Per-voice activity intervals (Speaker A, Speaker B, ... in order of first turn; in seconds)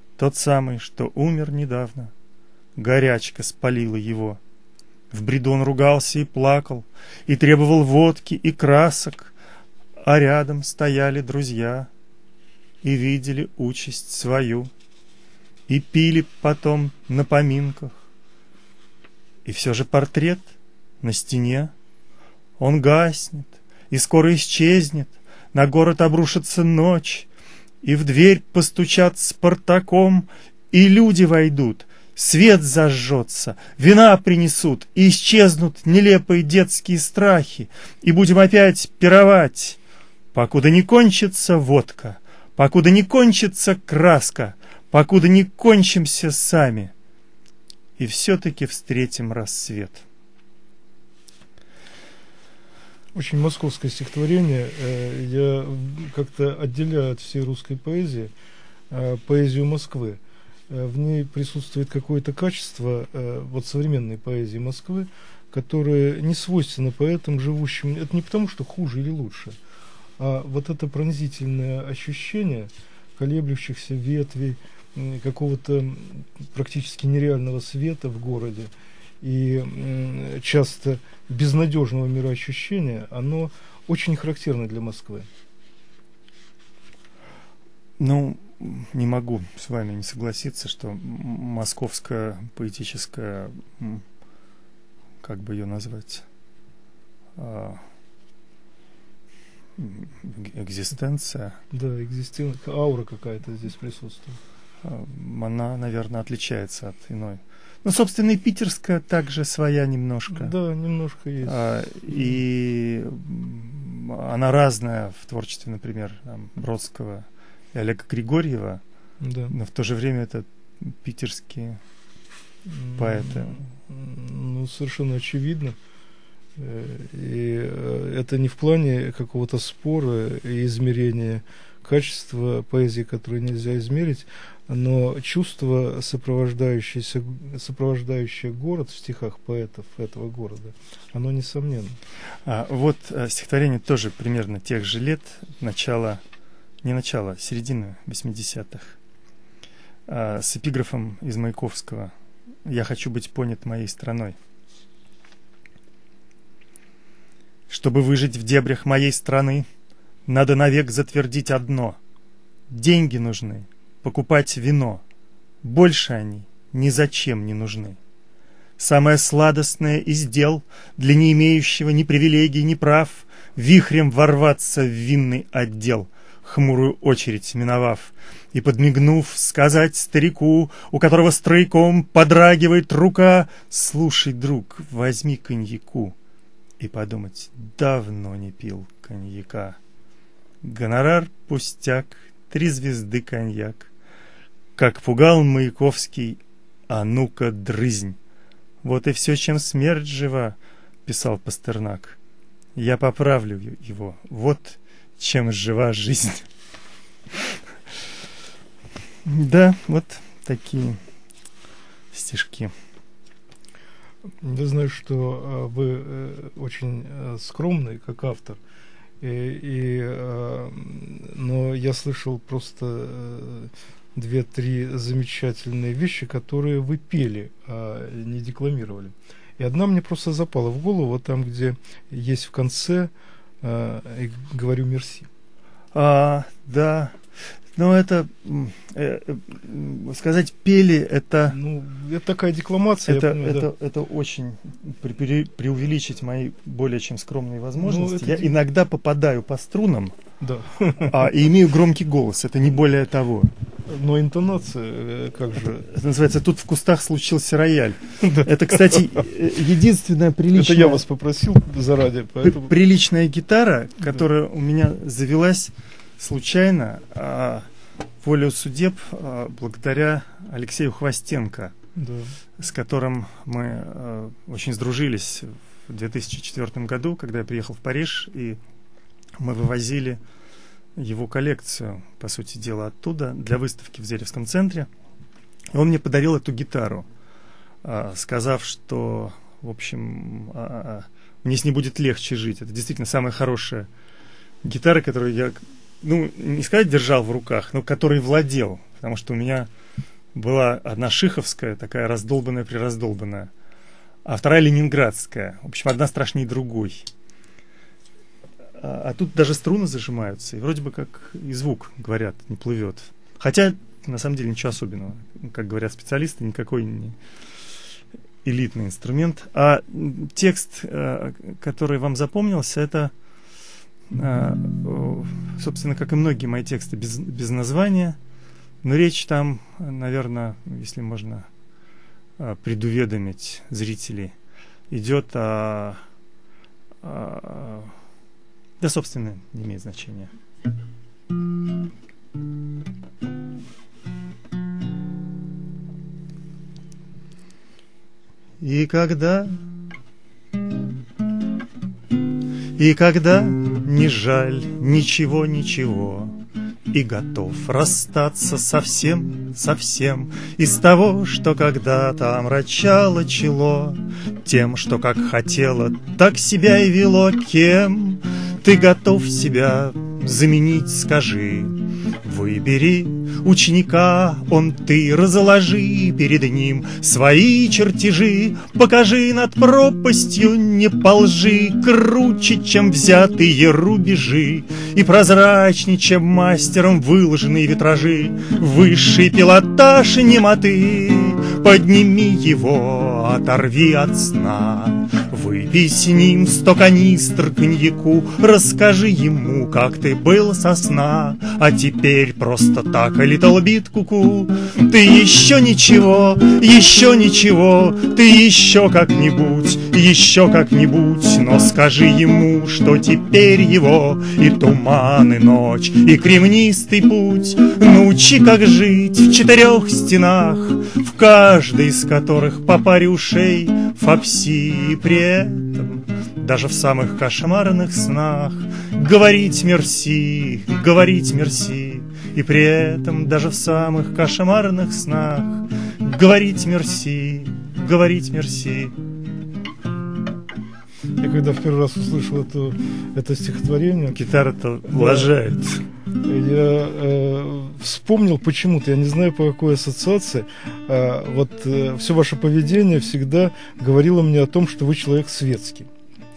Speaker A: 0.2-2.1, 2.8-4.4, 5.1-9.3, 10.0-11.9, 12.8-14.7, 15.7-17.9, 19.4-21.7, 22.6-27.3, 27.8-39.8, 40.3-46.9, 48.0-50.0, 88.0-94.0, 95.2-96.2, 97.4-97.8, 99.8-101.6, 104.8-110.5, 111.4-118.8, 119.5-121.8, 123.0-123.7, 142.4-146.2, 146.8-149.0, 150.1-152.1, 152.7-154.3, 157.7-159.7, 160.3-162.0, 162.7-165.0, 165.6-168.0, 168.8-186.1, 186.8-189.8, 190.6-193.9, 194.8-198.2, 198.8-202.2, 202.8-206.5, 209.2-211.0, 212.1-212.7, 235.9-237.2, 237.7-241.6, 243.0-250.1, 251.0-253.5, 255.8-261.0, 262.4-267.6, 268.2-271.7, 272.6-278.6, 279.4-280.2, 281.0-284.9, 285.7-287.1, 287.8-293.9, 294.6-299.7, 300.3-303.5, 304.2-307.1, 308.8-317.2, 318.4-323.1, 324.1-328.2, 328.8-331.5, 332.4-334.3, 334.9-336.0, 337.0-337.9, 338.8-340.3, 348.6-349.6, 352.8-356.4, 356.9-438.9, 444.1-445.8
Speaker B: 53.1-58.3, 58.9-69.6, 70.2-85.3, 101.7-104.4, 110.3-112.3, 119.2-119.5, 122.7-125.8, 126.6-142.0, 214.4-218.6, 219.2-233.1, 233.6-235.3, 241.5-243.7, 247.8-248.5, 250.4-251.3, 253.9-255.9, 258.2-259.1, 260.5-262.7, 271.9-272.3, 441.2-444.2, 444.9-445.3, 446.2-455.9